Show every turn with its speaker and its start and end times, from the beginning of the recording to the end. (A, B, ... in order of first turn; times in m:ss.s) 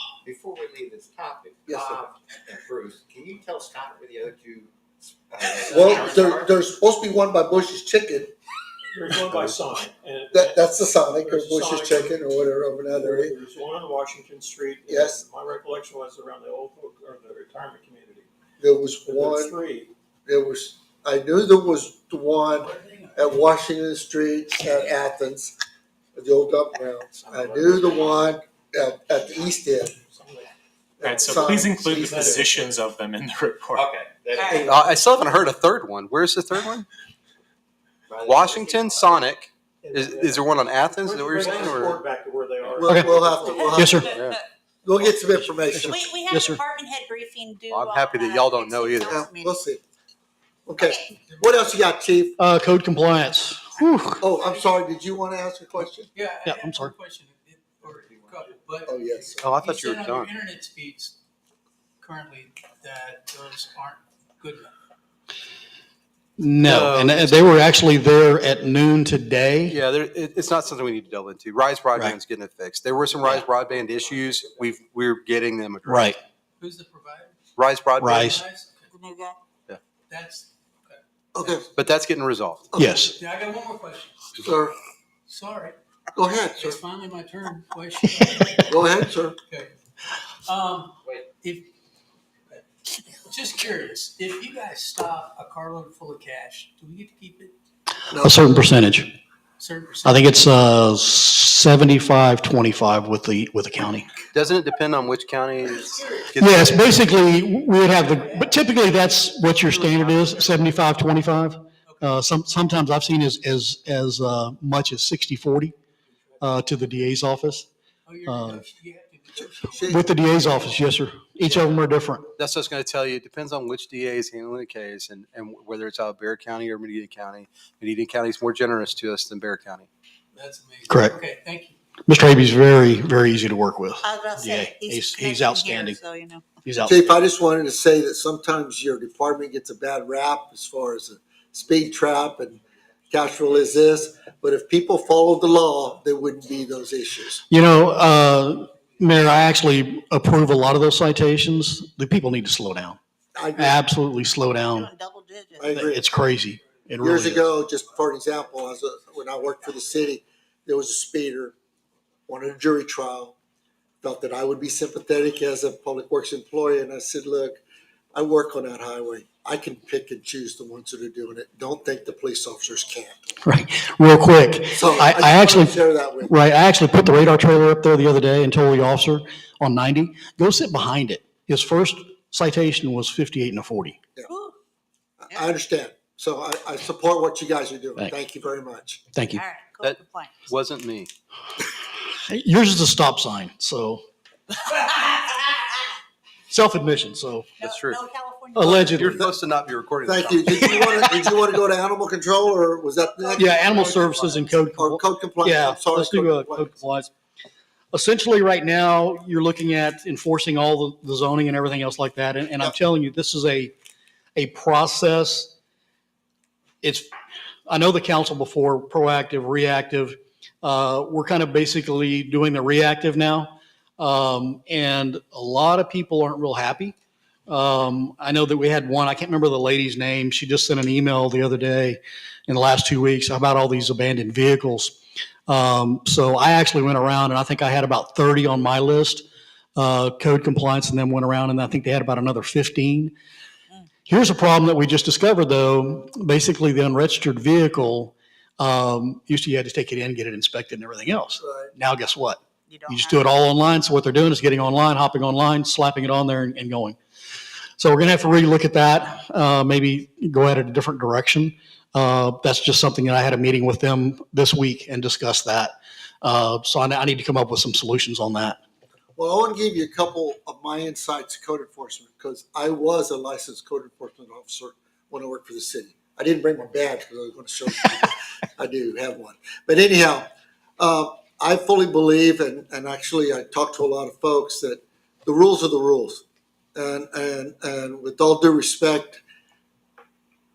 0:00.2-0:04.7 A
0:01.7-0:02.0 B
0:05.3-0:06.6 A
0:05.6-0:08.3 B
0:08.9-0:12.3 C
0:10.3-0:13.4 B
0:12.8-0:18.3 C
0:14.9-0:15.2 B
0:18.6-0:19.6 B
0:19.1-0:19.9 C
0:20.2-0:25.5 B
0:22.7-0:23.0 D
0:26.2-0:30.0 B
0:27.2-0:28.3 C
0:29.2-0:30.5 C
0:31.0-0:32.6 B
0:31.0-0:33.8 E
0:31.1-0:32.8 C
0:33.7-0:35.0 A
0:34.6-0:36.8 F
0:38.1-0:39.2 A
0:38.2-0:42.0 F
0:39.8-0:44.0 C
0:41.4-0:41.9 B
0:42.8-0:44.0 B
0:42.9-0:43.1 G
0:43.4-0:44.4 H
0:43.7-0:44.1 G
0:44.0-0:44.4 F
0:44.8-0:46.0 B
0:45.3-0:46.6 G
0:45.7-0:49.6 H
0:47.7-0:49.2 F
0:49.1-0:49.8 B
0:50.6-0:52.4 B
0:50.8-0:51.2 H
0:52.4-0:54.2 G
0:54.2-0:56.1 B
0:56.1-1:01.2 D
0:56.4-0:56.9 G
0:58.8-0:59.5 B
0:59.4-1:00.3 F
1:02.0-1:04.7 D
1:06.4-1:09.8 G
1:06.6-1:07.6 F
1:09.7-1:16.2 F
1:15.8-1:16.2 G
1:16.6-1:17.3 D
1:17.6-1:18.3 F
1:18.0-1:18.4 G
1:18.3-1:18.9 D
1:18.9-1:19.4 H
1:20.1-1:21.8 D
1:21.3-1:21.6 B
1:21.8-1:22.7 F
1:22.7-1:23.0 B
1:22.8-1:23.1 G
1:23.2-1:24.3 D
1:24.4-1:24.8 B
1:25.3-1:29.7 D
1:26.1-1:26.8 B
1:28.7-1:29.4 B
1:30.4-1:31.7 D
1:32.5-1:37.5 D
1:38.1-1:38.4 B
1:38.2-1:39.1 G
1:39.6-1:40.3 D
1:40.0-1:44.1 G
1:44.3-1:47.0 F
1:46.4-1:55.7 G
1:56.4-1:57.7 G
1:58.0-2:00.0 D
1:58.2-1:58.6 G
1:59.4-2:00.1 B
1:59.9-2:02.3 G
2:01.4-2:01.8 F
2:02.4-2:09.9 F
2:10.3-2:11.8 D
2:10.9-2:11.2 G
2:12.1-2:16.0 G
2:14.0-2:16.4 H
2:16.6-2:17.1 G
2:16.8-2:27.4 B
2:27.5-2:33.0 G
2:33.3-2:33.8 B
2:33.6-2:34.9 G
2:34.7-2:35.8 H
2:35.6-2:36.0 B
2:35.7-2:37.5 G
2:37.0-2:41.5 B
2:42.3-2:43.3 B
2:44.0-2:47.6 B
2:48.1-2:53.1 B
2:53.4-3:04.0 G
2:54.7-2:56.3 B
3:04.3-3:04.5 H
3:05.2-3:09.0 B
3:09.1-3:09.4 G
3:09.3-3:10.3 H
3:09.8-3:11.1 F
3:12.2-3:14.0 G
3:14.7-3:15.4 H
3:16.5-3:17.5 G
3:17.6-3:19.0 H
3:17.6-3:18.0 F
3:18.5-3:19.3 G
3:18.6-3:21.1 F
3:20.0-3:26.7 B
3:23.2-3:24.0 H
3:23.3-3:27.1 G
3:27.9-3:33.7 G
3:34.4-3:35.5 G
3:36.8-3:37.1 G
3:37.7-3:46.9 G
3:47.5-4:03.1 G
4:04.1-4:17.0 G
4:11.4-4:11.7 B
4:12.7-4:13.2 H
4:17.8-4:28.6 G
4:29.2-4:40.3 B
4:40.8-4:46.2 B
4:46.7-4:49.2 B